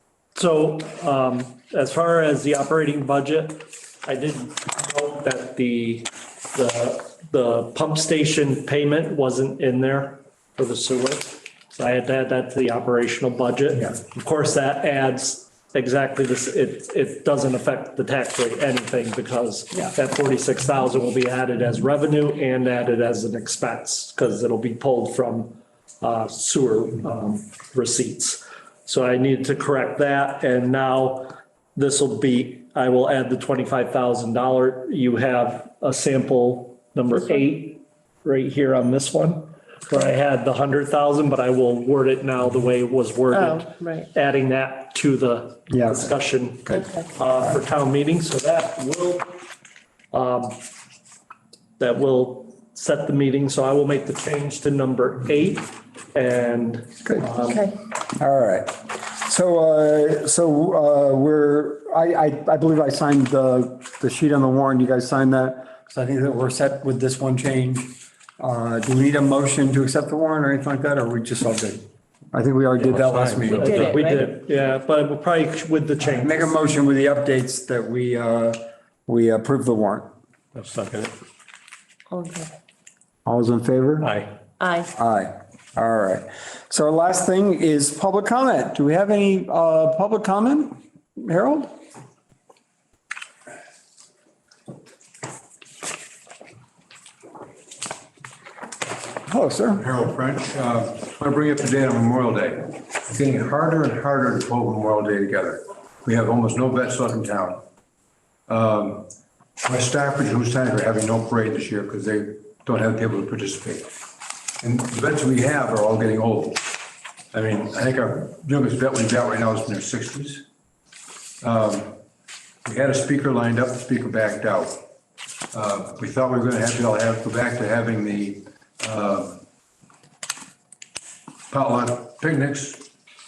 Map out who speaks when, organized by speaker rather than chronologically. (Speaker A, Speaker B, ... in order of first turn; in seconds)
Speaker A: 0.3-49.3, 50.1-50.6, 51.8-57.6, 73.5-76.4
Speaker B: 43.3-44.1, 46.7-47.1, 57.4-57.7, 73.6-74.3, 82.1-82.5, 84.6-84.9
Speaker C: 45.7-46.8, 58.2-74.0, 76.0-80.1, 83.2-84.1, 85.0-91.7, 99.3-99.8
Speaker D: 72.8-74.0, 80.5-81.1, 84.0-84.3
Speaker E: 99.8-107.6, 108.5-109.1, 109.6-113.9, 114.6-116.7, 117.3-120.5, 121.4-122.0, 122.6-124.8, 125.5-129.4, 131.5-132.9